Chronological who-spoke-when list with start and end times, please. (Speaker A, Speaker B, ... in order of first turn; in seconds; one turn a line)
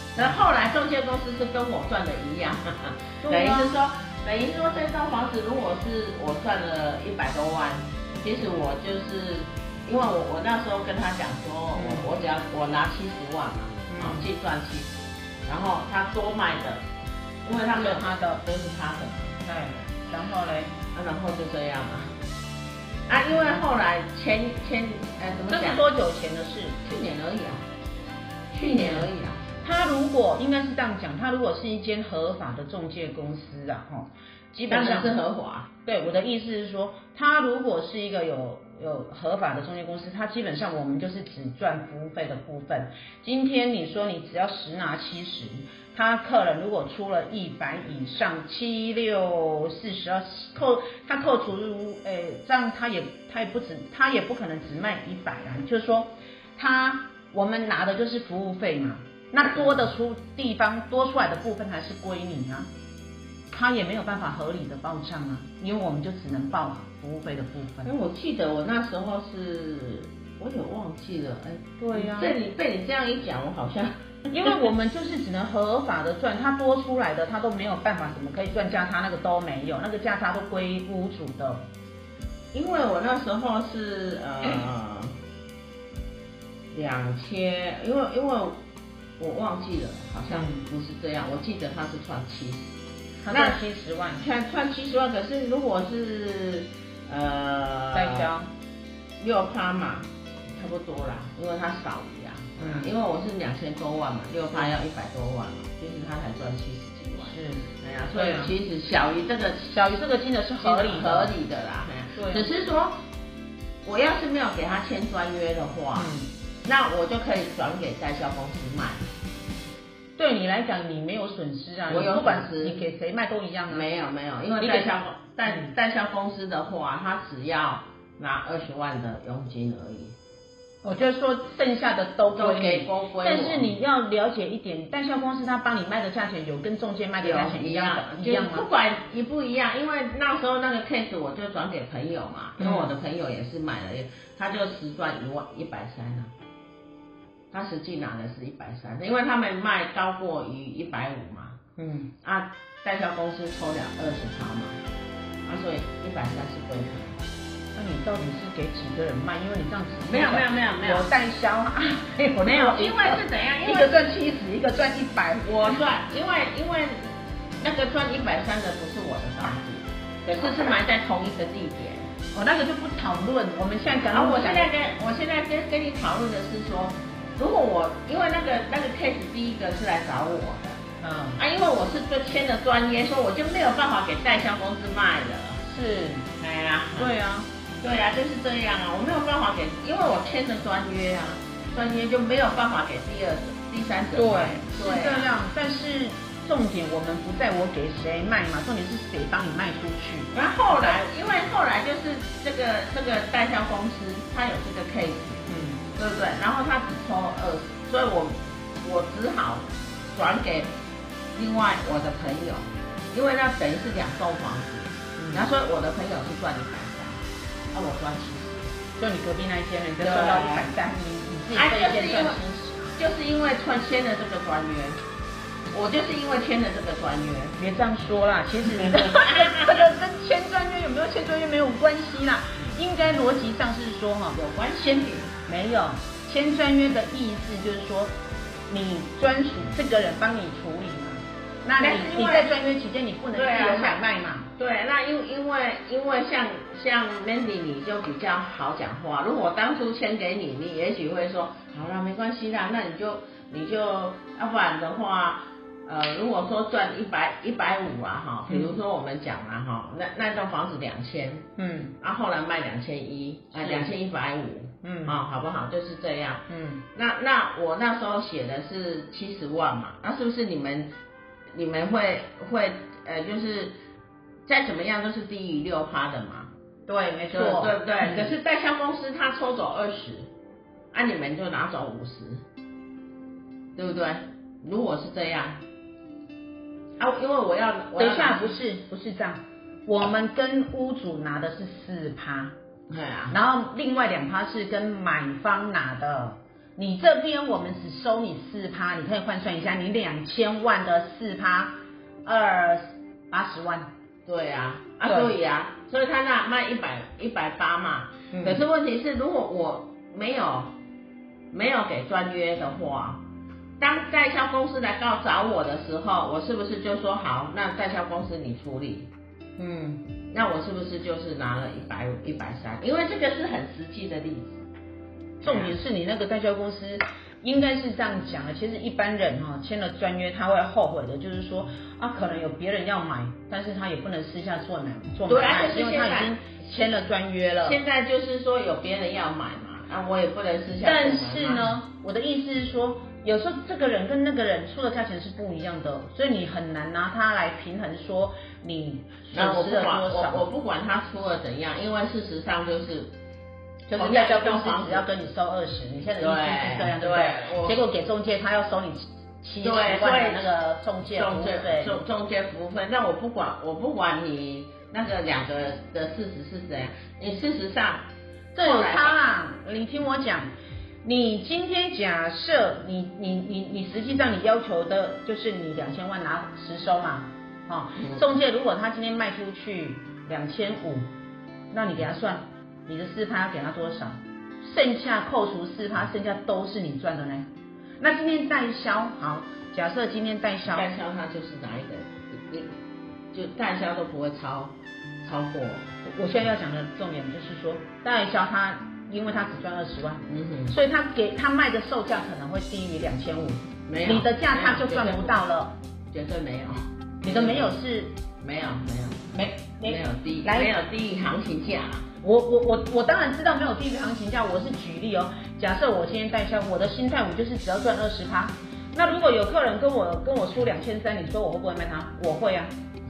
Speaker A: 0.1-14.9
Speaker B: 3.2-3.7
Speaker B: 11.7-12.1
Speaker B: 13.9-14.2
Speaker A: 15.4-16.8
Speaker A: 17.4-19.4
Speaker B: 17.7-18.4
Speaker B: 19.4-20.7
Speaker A: 20.9-22.2
Speaker A: 23.1-25.8
Speaker B: 23.3-23.6
Speaker B: 25.5-26.8
Speaker A: 26.8-27.6
Speaker A: 28.5-29.4
Speaker B: 28.6-29.1
Speaker B: 29.6-35.2
Speaker A: 34.7-35.7
Speaker B: 35.9-62.7
Speaker B: 63.5-67.9
Speaker A: 67.8-74.6
Speaker B: 71.8-72.3
Speaker B: 74.3-81.7
Speaker A: 82.5-85.2
Speaker A: 86.7-88.6
Speaker A: 89.2-92.8
Speaker B: 90.3-90.6
Speaker B: 93.2-94.2
Speaker A: 93.3-93.6
Speaker A: 94.2-98.3
Speaker B: 97.9-98.5
Speaker A: 99.2-109.9
Speaker B: 102.6-102.9
Speaker B: 107.2-108.5
Speaker B: 109.7-111.3
Speaker A: 110.6-113.0
Speaker B: 112.1-112.5
Speaker A: 113.8-116.1
Speaker B: 116.0-116.3
Speaker A: 116.6-119.1
Speaker B: 120.2-123.8
Speaker A: 121.9-122.8
Speaker A: 123.7-130.1
Speaker B: 124.6-124.9
Speaker B: 125.5-125.7
Speaker B: 130.8-138.7
Speaker A: 132.3-133.7
Speaker A: 137.2-146.3
Speaker B: 142.6-142.9
Speaker A: 147.5-151.6
Speaker B: 151.8-152.1
Speaker A: 152.2-154.8
Speaker A: 155.4-157.2
Speaker B: 157.7-165.8
Speaker A: 160.1-161.1
Speaker A: 162.4-164.0
Speaker A: 165.4-172.1
Speaker B: 172.3-174.7
Speaker A: 174.1-180.8
Speaker B: 181.0-181.4
Speaker A: 181.4-185.6
Speaker B: 185.6-186.3
Speaker A: 186.4-187.1
Speaker B: 186.9-187.5
Speaker A: 187.8-195.3
Speaker B: 194.2-201.0
Speaker A: 200.3-210.7
Speaker B: 205.5-205.8
Speaker A: 211.3-218.7
Speaker B: 215.2-215.5
Speaker B: 219.0-222.8
Speaker A: 220.0-220.7
Speaker A: 221.5-222.4
Speaker A: 223.0-225.0
Speaker A: 225.7-227.6
Speaker B: 227.6-234.4
Speaker A: 228.6-229.8
Speaker A: 234.3-235.3
Speaker B: 235.4-238.1
Speaker B: 238.7-244.5
Speaker A: 241.8-242.5
Speaker A: 243.3-244.0
Speaker A: 244.6-261.5
Speaker B: 258.5-258.8
Speaker B: 261.6-261.9
Speaker A: 262.0-270.9
Speaker B: 263.5-263.9
Speaker B: 264.8-265.1
Speaker B: 266.5-266.8
Speaker A: 271.5-273.8
Speaker A: 274.4-276.5
Speaker B: 276.9-278.3
Speaker A: 277.3-280.3
Speaker A: 280.9-282.4
Speaker A: 283.8-285.6
Speaker A: 287.0-288.5
Speaker B: 287.9-292.5
Speaker A: 292.9-293.3
Speaker B: 293.3-303.9
Speaker A: 304.2-310.7
Speaker B: 305.0-305.3
Speaker B: 308.3-308.6
Speaker A: 311.5-313.2
Speaker A: 313.8-319.1
Speaker B: 319.6-320.0
Speaker A: 320.3-324.6
Speaker A: 325.4-325.7
Speaker B: 325.4-337.8
Speaker A: 335.3-336.4
Speaker A: 337.6-341.7
Speaker B: 340.8-350.4
Speaker A: 349.3-353.1
Speaker B: 353.9-362.0
Speaker A: 353.9-355.0
Speaker A: 356.2-357.8
Speaker A: 359.6-360.5
Speaker A: 361.1-369.2
Speaker B: 368.6-370.5
Speaker B: 371.0-381.1
Speaker A: 377.9-378.2
Speaker B: 381.7-387.5
Speaker B: 388.0-390.9
Speaker A: 390.7-392.7
Speaker A: 393.3-395.9
Speaker B: 396.0-405.7
Speaker A: 400.3-400.7
Speaker A: 403.9-405.4
Speaker A: 406.1-407.8
Speaker B: 407.2-408.1
Speaker A: 408.4-412.1
Speaker B: 409.3-410.7
Speaker B: 412.2-422.7